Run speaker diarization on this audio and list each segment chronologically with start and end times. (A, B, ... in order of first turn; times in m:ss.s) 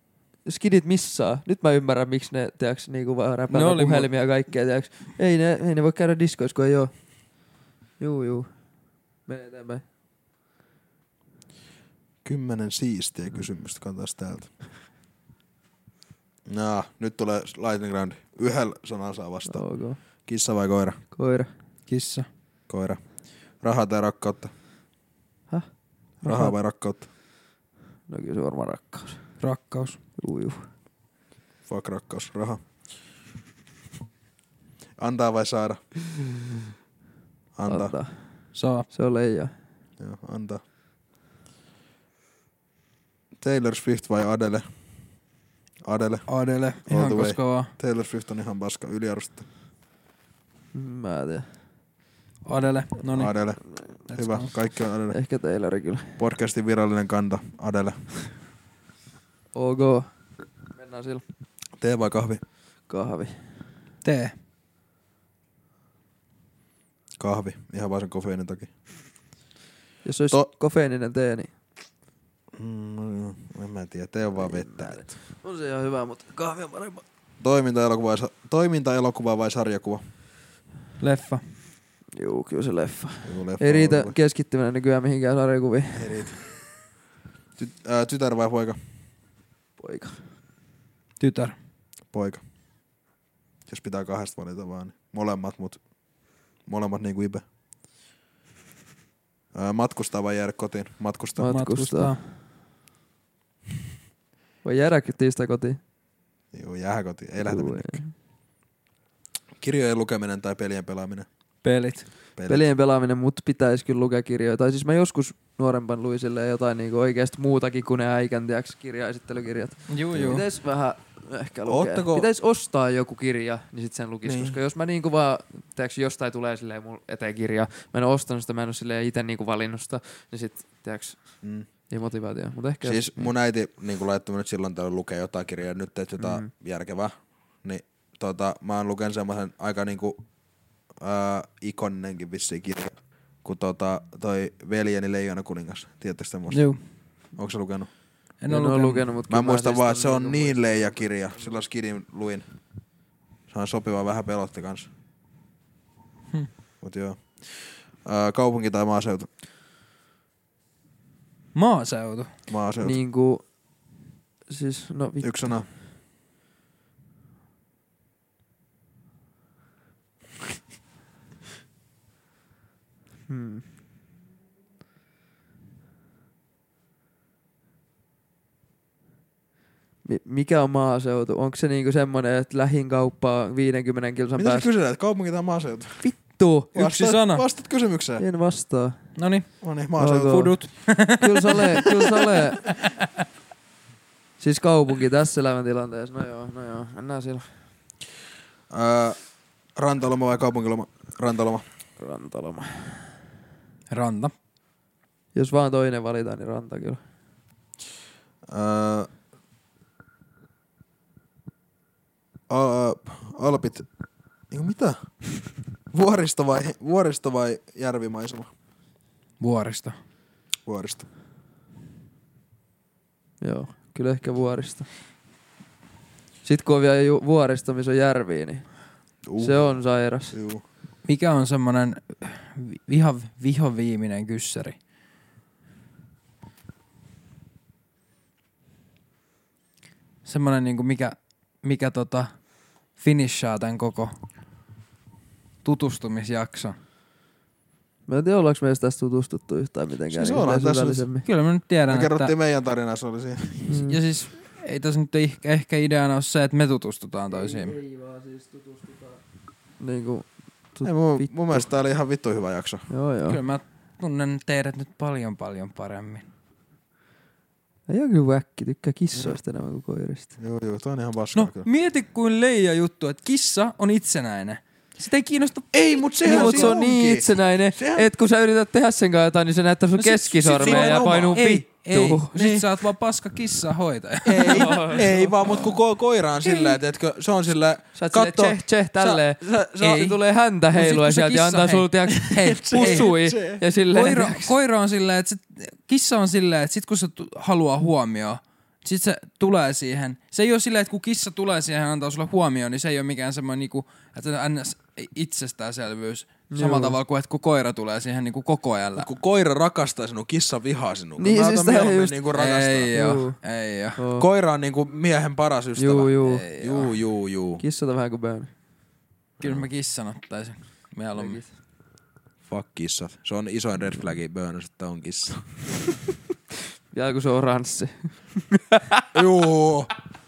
0:00.4-0:07.4 A
0:03.5-0:04.1 B
0:08.0-0:08.5 A
0:09.3-0:09.8 A
0:12.2-0:14.5 C
0:16.5-0:19.6 C
0:19.5-0:20.0 A
0:20.2-0:21.0 C
0:21.1-0:21.5 A
0:21.9-0:22.3 B
0:22.7-0:23.0 C
0:23.6-0:24.5 C
0:25.5-0:26.5 A
0:26.2-0:27.1 C
0:28.1-0:29.2 A
0:29.4-0:30.0 B
0:30.2-0:30.7 A
0:31.7-0:32.6 C
0:35.0-0:35.8 C
0:37.5-0:37.9 C
0:37.7-0:39.5 A
0:38.5-0:38.9 B
0:40.0-0:40.6 C
0:43.4-0:44.7 C
0:45.8-0:46.3 C
0:46.3-0:47.7 B
0:46.8-0:49.4 C
0:50.7-0:51.5 A
0:52.4-0:53.4 B
0:53.1-0:55.2 C
0:54.1-0:54.5 B
0:55.1-0:56.2 A
0:56.2-0:58.0 C
0:59.5-1:00.1 A
1:00.7-1:01.2 A
1:01.8-1:02.4 C
1:02.9-1:03.4 A
1:04.0-1:04.3 B
1:07.2-1:08.7 C
1:10.0-1:11.5 A
1:12.5-1:15.1 C
1:14.4-1:17.0 A
1:17.4-1:20.0 C
1:21.0-1:21.4 B
1:22.2-1:26.3 A
1:23.2-1:24.2 C
1:25.9-1:26.6 C
1:27.6-1:28.8 C
1:29.8-1:30.2 A
1:31.2-1:31.6 B
1:32.1-1:32.4 C
1:33.7-1:35.8 C
1:36.6-1:37.4 C
1:39.5-1:41.5 C
1:41.4-1:42.2 A
1:41.5-1:42.2 B
1:44.6-1:45.8 A
1:46.5-1:48.0 C
1:47.4-1:48.1 A
1:49.6-1:51.3 C
1:51.6-1:52.1 B
1:52.4-1:52.7 C
1:52.5-2:13.3 A
1:59.9-2:00.4 B
2:00.1-2:00.4 C
2:01.6-2:02.3 C
2:04.2-2:04.6 C
2:12.8-2:20.2 C
2:16.2-2:16.5 A
2:20.9-2:26.6 C
2:26.5-2:26.8 B
2:27.3-2:27.9 C
2:28.4-2:29.1 B
2:28.5-2:30.9 A
2:29.3-2:32.4 C
2:33.5-2:34.9 C
2:36.8-2:39.3 C
2:41.5-2:42.3 B
2:42.5-2:43.0 C
2:42.8-2:43.4 A
2:44.5-2:45.5 A
2:45.2-2:45.7 C
2:53.3-2:53.6 A
3:00.0-3:04.7 A
3:04.4-3:06.1 C
3:06.0-3:06.7 A
3:06.7-3:08.2 C
3:06.7-3:07.4 B
3:08.2-3:09.1 A
3:09.2-3:09.5 B
3:09.6-3:10.5 C
3:10.0-3:12.7 A
3:10.1-3:11.6 B
3:14.4-3:17.5 A
3:18.7-3:19.2 C
3:19.7-3:21.6 C
3:22.0-3:23.0 A
3:23.9-3:24.3 B
3:25.3-3:27.0 A
3:28.5-3:29.1 C
3:32.5-3:33.8 C
3:34.5-3:35.2 C
3:35.9-3:38.5 C
3:39.4-3:40.0 B
3:40.6-3:41.0 C
3:43.4-3:44.9 A
3:46.4-3:48.7 A
3:49.2-3:50.6 C
3:49.4-3:50.3 A
3:51.0-3:54.8 B
4:00.2-4:04.2 B
4:05.6-4:06.8 B
4:08.1-4:11.2 A
4:10.1-4:11.0 C
4:11.2-4:12.3 B
4:11.9-4:13.8 C
4:13.7-4:14.0 A
4:13.8-4:17.8 B
4:17.3-4:19.2 A
4:19.8-4:21.7 A
4:20.8-4:22.8 C
4:22.9-4:23.4 A
4:23.3-4:26.2 B
4:27.9-4:30.3 A
4:30.4-4:31.7 C
4:31.3-4:36.7 B
4:35.7-4:38.1 C
4:36.2-4:42.3 A
4:40.0-4:45.5 B
4:40.4-4:41.4 C
4:42.3-4:42.7 C
4:44.2-4:50.2 C
4:44.4-4:45.6 A
4:46.5-4:46.7 A
4:47.9-4:54.5 A
4:50.7-4:53.1 B
4:52.2-4:53.6 C
4:53.8-5:09.1 B
5:06.5-5:07.0 A
5:09.0-5:12.9 C
5:11.2-5:12.2 A
5:12.3-5:14.0 B
5:12.9-5:13.4 A
5:14.0-5:14.2 A
5:14.2-5:17.6 C
5:15.8-5:16.4 A
5:16.2-5:17.0 B
5:17.6-5:18.5 A
5:19.4-5:19.7 C
5:19.4-5:21.4 B
5:21.1-5:21.5 A
5:22.5-5:25.6 C
5:26.9-5:29.2 A
5:29.1-5:29.9 C